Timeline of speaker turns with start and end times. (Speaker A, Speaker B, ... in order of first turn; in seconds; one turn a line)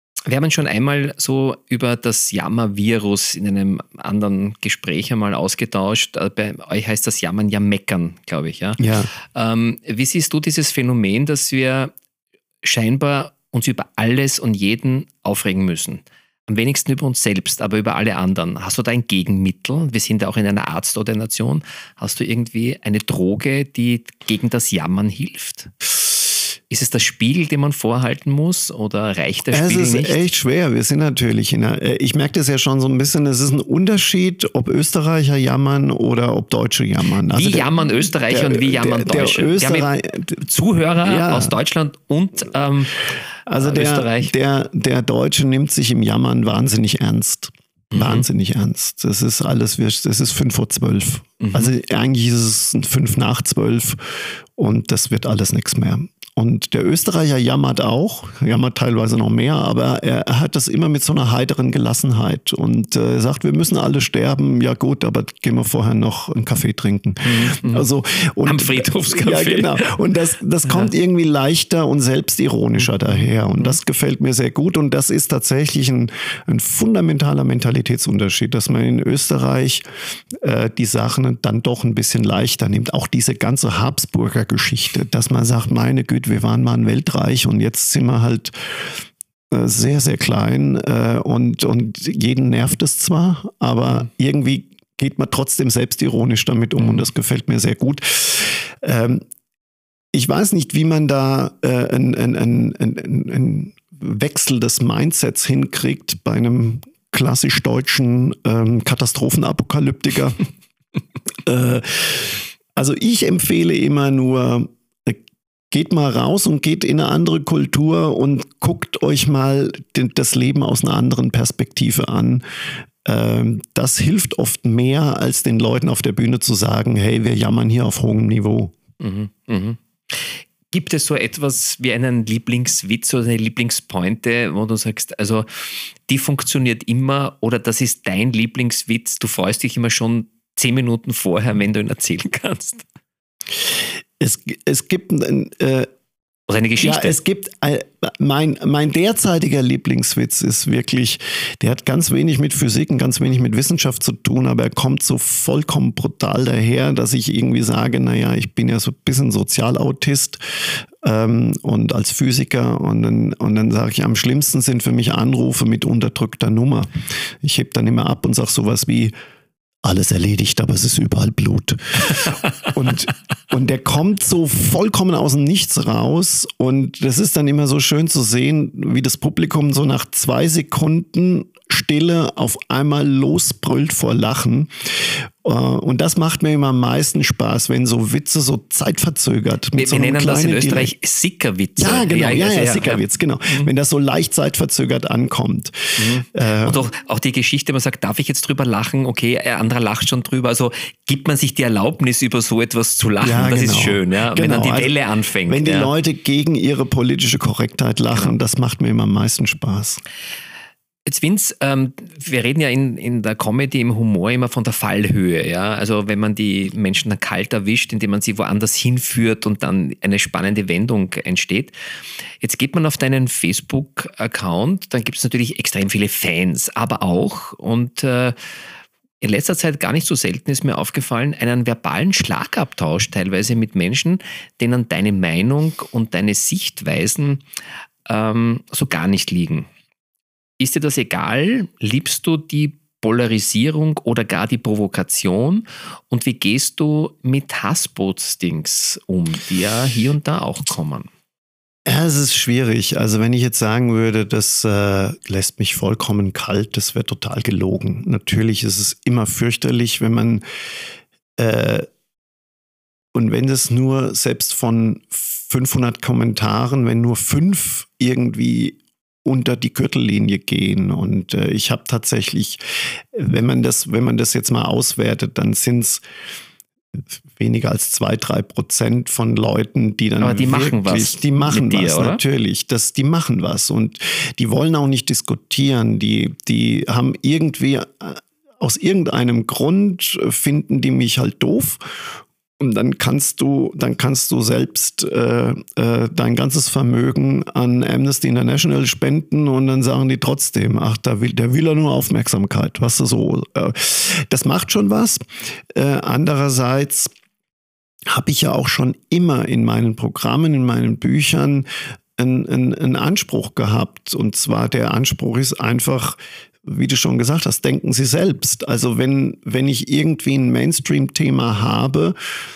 Speaker A: 0.3-11.9
Speaker B: 8.8-9.1
Speaker A: 12.6-25.9
Speaker A: 26.7-30.2
Speaker B: 29.5-37.7
Speaker A: 37.3-44.3
Speaker B: 38.3-40.4
Speaker B: 41.0-41.6
Speaker B: 43.5-88.5
Speaker A: 47.9-48.2
Speaker A: 51.4-51.8
Speaker A: 67.2-67.9
Speaker A: 68.4-70.0
Speaker A: 70.6-70.9
Speaker A: 73.0-73.8
Speaker B: 89.5-99.2
Speaker A: 96.8-97.1
Speaker B: 100.1-110.4
Speaker B: 111.5-122.4
Speaker B: 123.0-128.7
Speaker A: 129.0-142.8
Speaker B: 144.2-145.9
Speaker A: 146.5-147.2
Speaker B: 146.8-169.1
Speaker B: 169.8-190.9
Speaker A: 189.8-193.7
Speaker B: 191.8-196.8
Speaker A: 196.0-205.9
Speaker B: 203.2-205.0
Speaker B: 205.5-210.0
Speaker A: 211.1-221.7
Speaker A: 222.4-228.4
Speaker A: 229.2-237.4
Speaker A: 238.1-239.7
Speaker A: 240.6-251.1
Speaker B: 251.9-260.4
Speaker B: 261.4-261.9
Speaker B: 263.1-276.0
Speaker B: 277.0-305.2
Speaker A: 280.2-282.2
Speaker B: 305.7-307.1
Speaker B: 308.1-311.7
Speaker B: 312.2-322.1